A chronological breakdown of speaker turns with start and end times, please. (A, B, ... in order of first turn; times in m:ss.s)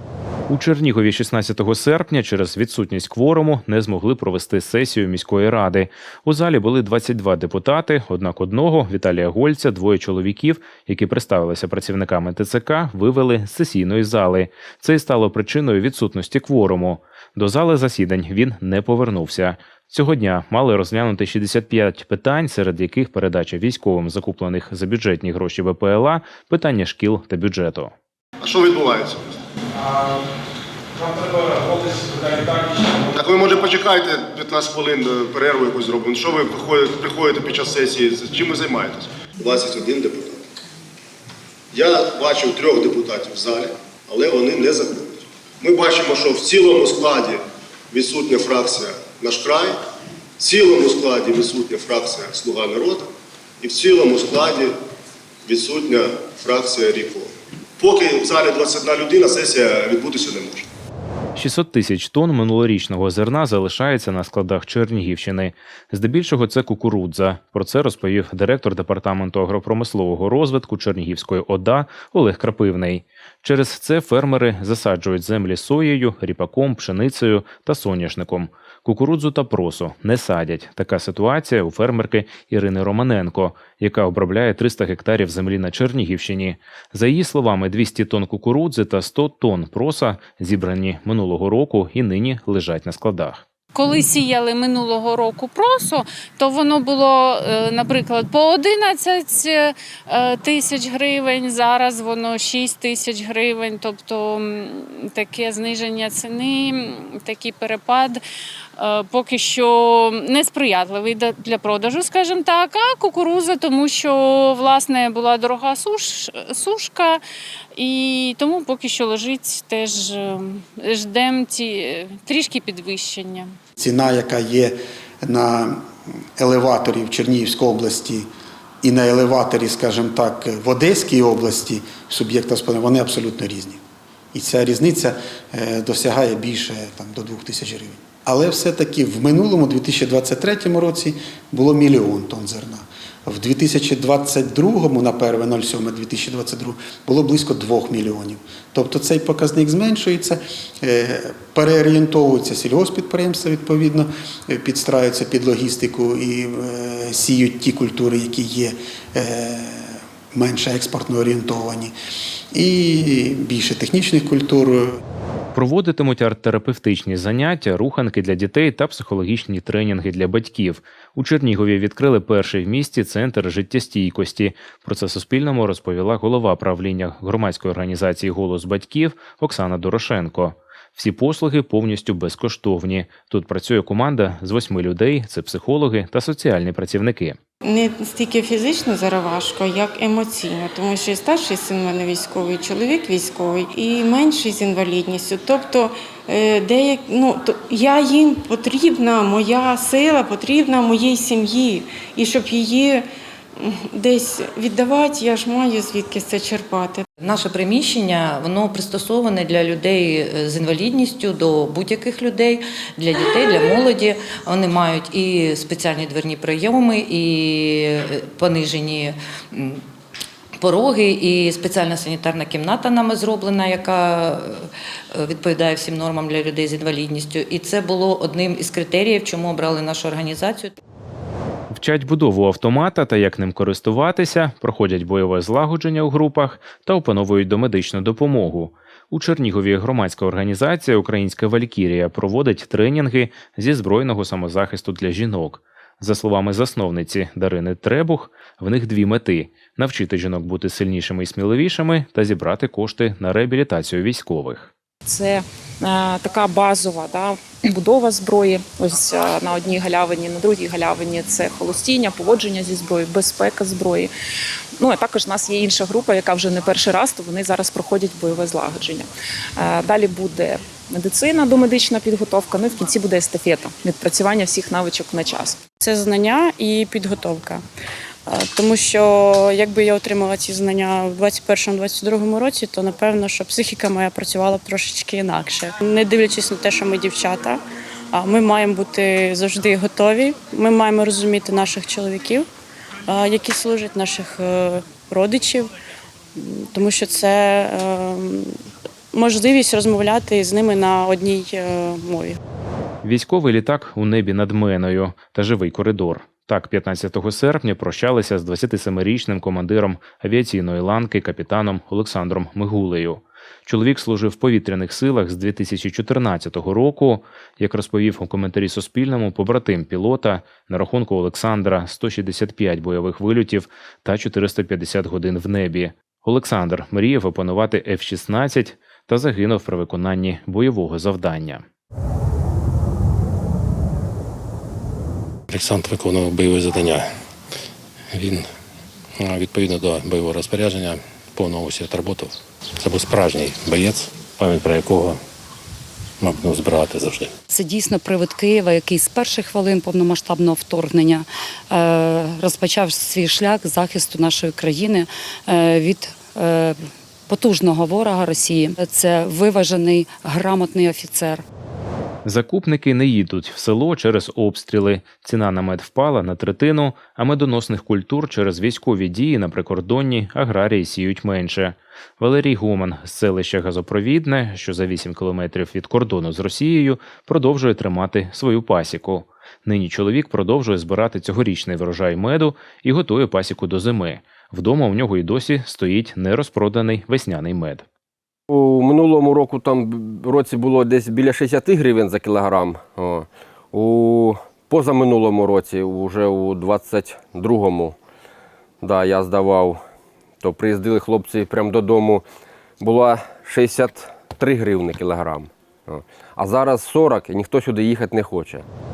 0:00.5-0:27.9 A
0:28.4-0:29.3 B
0:33.2-0:40.4 B
0:41.7-0:49.8 B
0:50.4-0:53.1 B
0:53.6-0:54.8 B
0:55.5-1:00.7 B
1:01.4-1:33.4 A
1:33.7-1:48.2 C
1:48.8-1:57.2 C
1:57.8-2:03.6 C
2:03.8-2:05.8 D
2:06.4-2:08.3 D
2:08.8-2:13.8 D
2:14.3-2:41.9 D
2:42.5-2:45.0 D
2:45.6-3:07.4 A
3:07.6-3:23.1 E
3:23.6-3:27.0 E
3:27.2-3:39.8 F
3:40.6-3:44.6 F
3:45.2-3:50.7 F
3:51.7-4:14.7 A
4:15.0-4:24.1 G
4:24.8-4:35.7 G
4:35.7-4:37.6 H
4:38.3-4:47.6 H
4:48.1-4:52.5 H
4:53.1-4:55.7 H
4:56.4-4:58.5 H
4:59.1-5:02.4 H
5:03.0-5:31.6 A
5:35.5-5:37.1 I
5:38.1-5:38.5 I
5:39.2-5:45.2 I
5:46.2-5:47.3 I
5:47.5-5:56.8 J
5:57.3-6:01.4 J
6:02.2-6:27.8 A
6:28.5-6:38.0 K
6:38.8-6:39.8 K
6:40.4-6:42.2 K
6:42.8-6:48.7 K